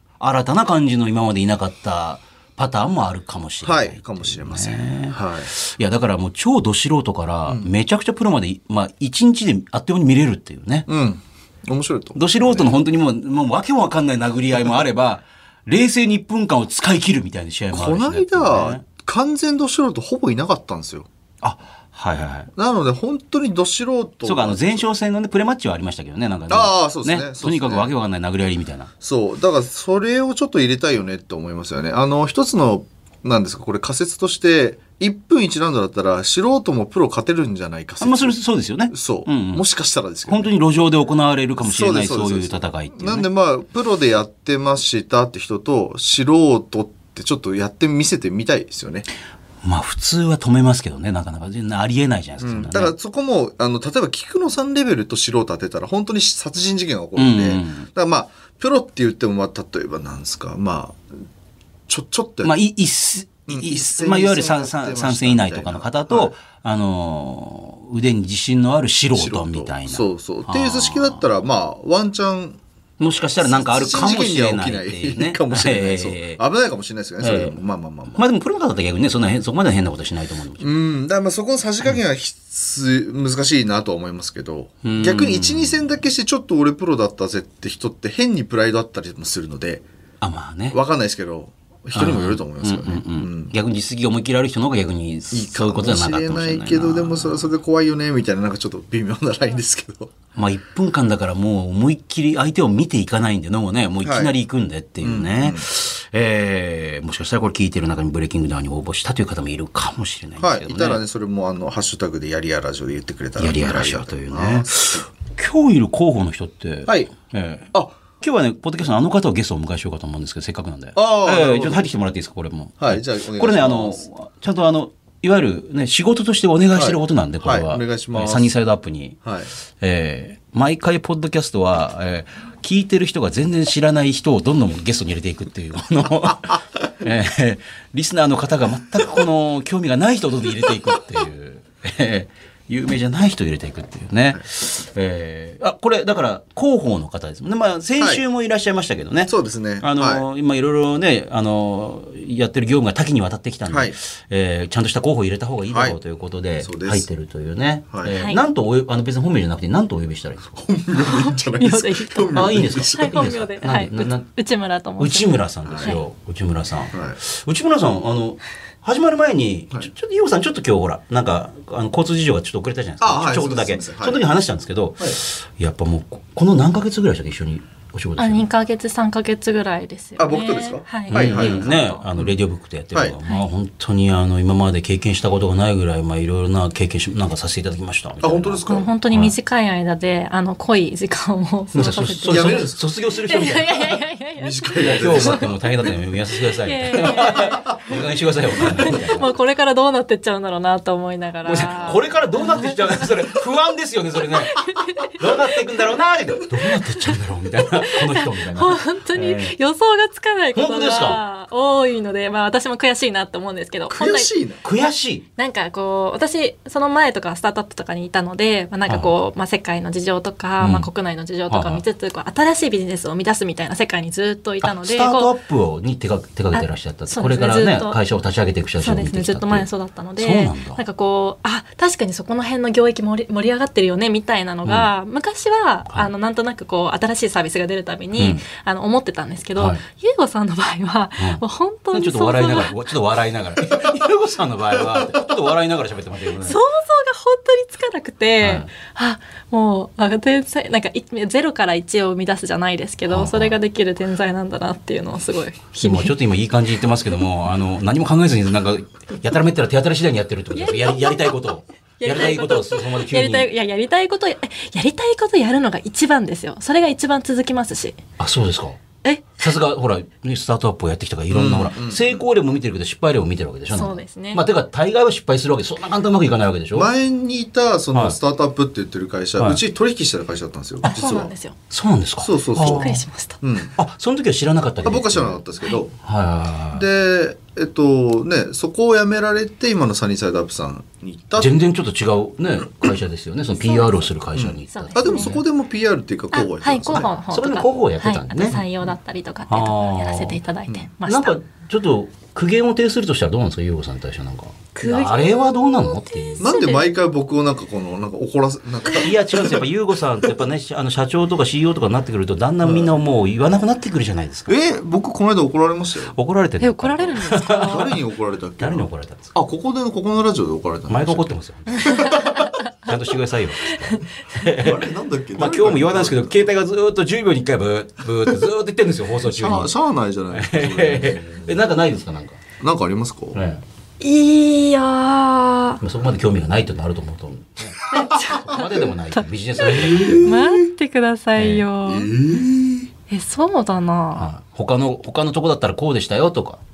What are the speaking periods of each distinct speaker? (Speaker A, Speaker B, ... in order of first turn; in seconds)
Speaker A: 0.2-10.9, 12.2-18.8, 21.4-22.5, 24.2-28.9, 38.0-39.6, 40.3-43.3, 49.6-52.9, 57.2-57.9, 62.4-71.2, 73.0-76.4, 77.2-77.6, 78.1-80.7, 84.8-85.9, 90.2-90.8, 92.0-97.5, 100.4-111.0, 113.4-129.2, 129.8-160.6, 162.3-164.3, 165.0-178.5, 181.1-189.3, 191.7-193.9, 194.8-199.3, 201.4-209.5, 210.6-211.2, 214.6-215.2, 218.9-219.1, 220.6-220.9, 221.5-221.8, 224.6-230.8, 238.2-238.4, 239.6-239.8, 241.9-246.6, 248.4-248.7, 253.1-253.6, 255.8-263.5, 268.2-268.8, 269.4-276.9, 280.8-281.1, 281.7-283.0, 283.8-285.4, 286.0-286.9, 291.4-295.4, 297.3-298.6, 299.5-300.4, 301.1-306.4, 308.9-314.6, 316.1-317.9, 318.6-319.3, 320.9-322.3, 322.8-329.7, 330.3-332.4, 333.3-333.6, 335.8-340.4, 341.4-341.6, 344.2-346.6
Speaker B: 3.6-5.5, 10.9-12.7, 17.7-21.1, 22.6-24.9, 26.5-27.9, 29.0-38.4, 38.9-40.5, 41.6-49.1, 52.4-61.1, 61.9-62.5, 63.5-66.3, 69.1-72.6, 73.4-78.2, 80.6-89.8, 90.7-93.5, 95.3-100.1, 104.0-104.3, 105.0-105.7, 110.4-115.0, 116.9-117.1, 117.7-118.0, 121.0-121.9, 122.8-124.0, 126.8-128.5, 129.2-129.5, 136.3-136.6, 148.0-148.2, 149.3-150.2, 153.7-153.9, 155.7-156.0, 156.6-157.1, 157.9-158.2, 160.6-163.2, 165.7-166.0, 166.9-167.2, 173.0-174.2, 180.2-182.4, 188.2-188.9, 192.3-192.8, 194.4-195.6, 197.0-197.8, 198.6-198.9, 213.9-214.6, 271.3-272.2, 276.7-281.3, 282.2-283.7, 284.8-285.9, 286.7-291.5, 294.4-297.1, 306.4-309.7, 312.6-313.0, 314.5-316.1, 317.6-322.5, 324.5-326.5, 329.2-331.5, 332.6-333.4, 337.9-338.9, 339.6-340.7, 341.9-342.9
Speaker C: 158.2-158.4, 161.0-162.4, 162.9-166.0, 178.2-182.0, 188.7-195.5, 196.6-197.7, 198.7-203.1, 204.5-205.3, 206.7-207.1, 207.7-214.3, 215.4-225.3, 226.5-228.0, 228.8-242.8, 246.4-256.1, 260.5-268.0, 269.0-269.5, 273.7-274.4, 280.9-281.6, 282.6-283.4, 293.6-294.1, 294.7-295.3, 296.3-301.4, 304.8-306.9, 316.6-317.9, 321.8-322.7, 323.7-324.1, 334.0-335.8, 337.9-342.1, 343.1-344.3